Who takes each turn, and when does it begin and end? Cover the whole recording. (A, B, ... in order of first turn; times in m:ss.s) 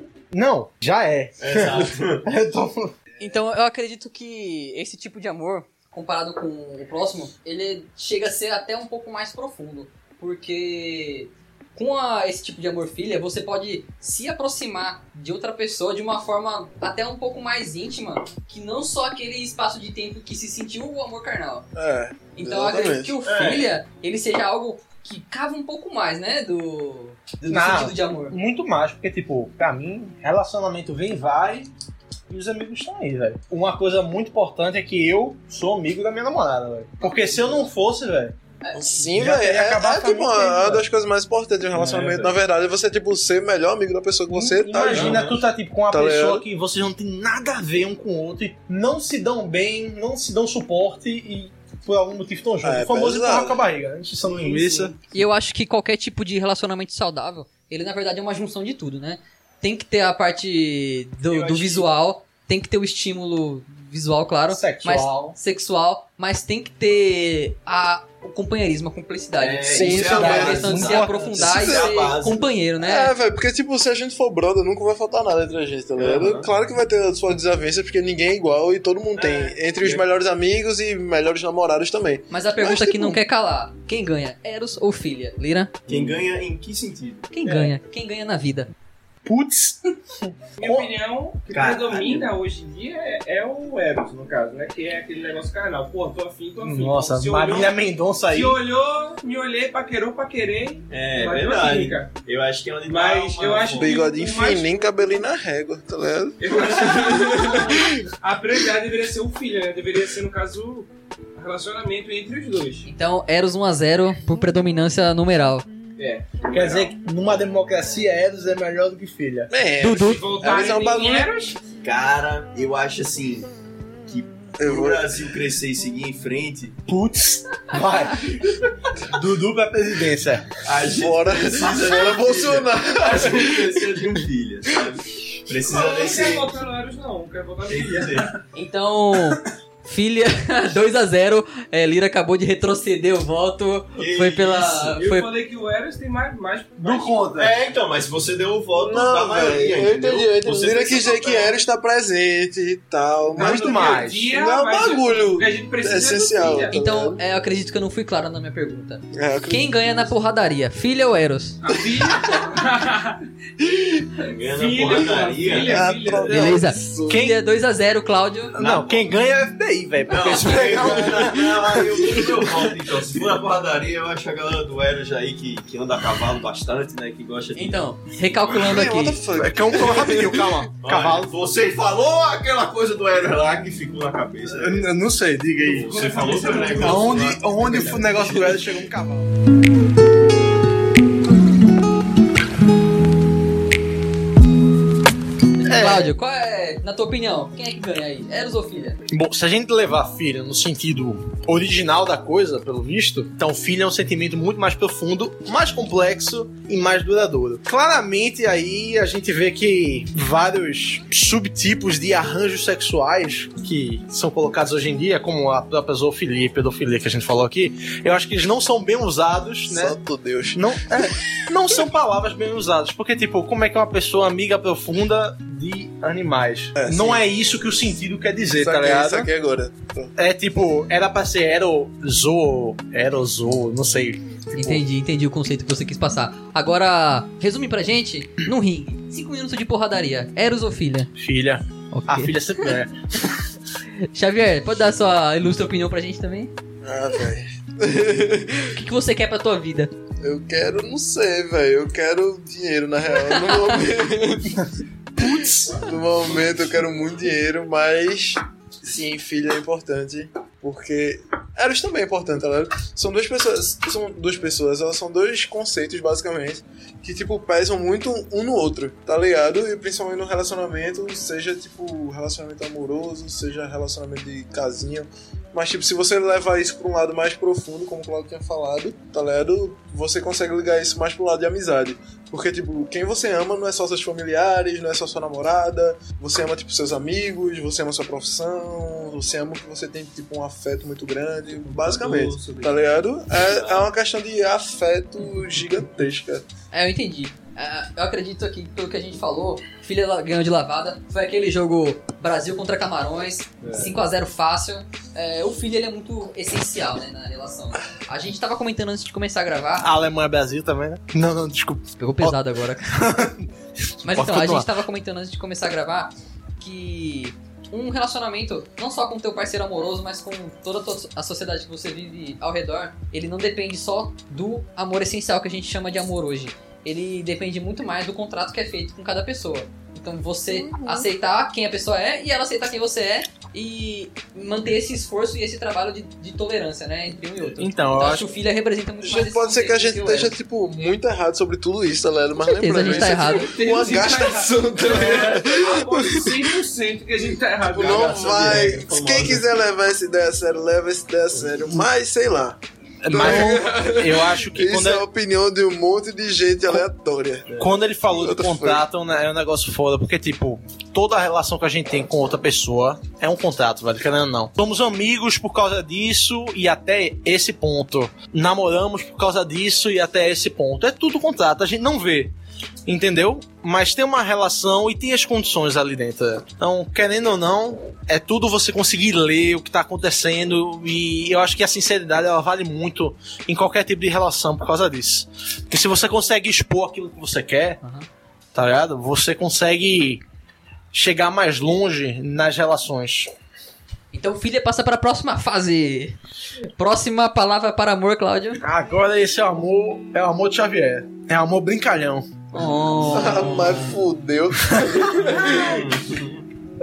0:00.3-0:03.0 A
0:01.4-0:02.2 B
0:03.2-0:21.7 C
0:21.7-0:23.2 D
0:22.3-0:28.4 C
0:23.2-0:23.7 B
0:27.5-0:31.7 A
0:32.3-0:38.4 A
0:38.7-0:45.3 D
0:39.1-0:40.8 A
0:41.7-0:42.3 B
0:44.3-0:55.0 A
0:44.9-0:45.4 B
0:45.9-0:46.4 D
0:52.6-0:53.6 D
0:54.3-0:54.9 E
0:55.1-1:13.1 C
1:01.3-1:01.9 B
1:04.5-1:05.4 A
1:09.4-1:12.5 B
1:09.7-1:11.7 A
1:09.8-1:10.8 D
1:11.6-1:11.9 D
1:12.8-1:23.2 D
1:16.0-1:16.5 B
1:19.2-1:19.5 E
1:22.3-1:25.7 C
1:25.9-1:27.6 B
1:27.3-1:28.7 C
1:29.2-1:30.9 A
1:30.6-1:37.7 E
1:31.5-1:32.2 B
1:31.5-1:32.0 A
1:36.6-1:38.6 A
1:38.3-1:42.1 E
1:40.9-1:44.0 B
1:42.9-1:45.2 E
1:43.7-1:48.0 D
1:46.4-1:52.9 E
1:52.8-1:55.6 C
1:56.0-1:56.9 E
1:56.5-1:59.5 A
1:59.5-2:01.3 D
1:59.8-2:00.2 C
1:59.9-2:01.6 E
2:01.8-2:03.5 B
2:04.0-2:06.8 B
2:04.6-2:05.2 D
2:06.9-2:08.3 A
2:08.3-2:08.6 B
2:09.1-2:10.5 A
2:10.6-2:16.5 B
2:10.9-2:14.1 D
2:15.6-2:18.3 E
2:17.7-2:18.4 B
2:18.5-2:25.3 C
2:24.0-2:25.0 B
2:25.0-2:27.3 E
2:26.8-2:27.5 A
2:27.3-2:31.5 B
2:28.8-2:37.2 D
2:33.3-2:36.7 E
2:33.4-2:34.3 A
2:36.7-2:41.6 C
2:39.1-2:39.9 D
2:41.6-2:43.2 E
2:43.6-2:43.9 D
2:44.2-2:45.9 B
2:44.4-2:46.6 E
2:45.6-2:47.2 D
2:46.2-2:48.5 C
2:47.1-2:47.4 A
2:48.6-2:52.8 A
2:48.6-2:49.1 B
2:50.0-2:57.9 B
2:57.6-2:59.2 C
2:58.4-3:00.6 D
2:59.3-3:01.3 A
3:00.8-3:04.9 B
3:04.5-3:06.1 A
3:05.6-3:08.1 B
3:05.9-3:07.3 E
3:06.8-3:09.3 A
3:08.2-3:08.7 D
3:15.6-3:16.1 A
3:15.6-3:19.0 C
3:19.1-3:40.0 A
3:39.6-3:41.0 D
3:40.5-3:49.3 A
3:46.8-3:47.2 D
3:48.6-3:50.1 D
3:50.2-3:54.8 A
3:54.5-4:01.1 C
4:01.2-4:03.0 A
4:01.9-4:02.7 C
4:04.1-4:06.5 C
4:06.8-4:08.8 D
4:08.7-4:09.9 C
4:10.2-4:14.7 D
4:13.3-4:13.8 C
4:15.2-4:15.9 A
4:15.2-4:56.4 D
4:51.6-4:53.9 B
4:56.7-5:09.9 C
5:03.6-5:03.9 B
5:09.8-5:12.4 A
5:12.0-5:13.0 C
5:12.9-5:13.5 A
5:14.0-5:14.7 A
5:14.0-5:40.4 C
5:30.7-5:31.1 D
5:37.4-5:38.3 A
5:39.0-5:46.5 D
5:42.4-5:43.5 C
5:42.8-5:48.6 E
5:47.7-5:49.4 B
5:47.7-5:58.8 D
5:53.0-5:55.0 A
5:57.5-6:12.3 A
6:12.8-6:27.8 A
6:28.5-6:30.2 A
6:30.9-6:33.3 A
6:34.1-6:36.2 C
6:36.8-6:38.6 C
6:38.6-6:42.5 A
6:42.5-6:44.0 C
6:43.1-6:45.8 D
6:43.4-6:43.9 B
6:45.5-6:46.4 B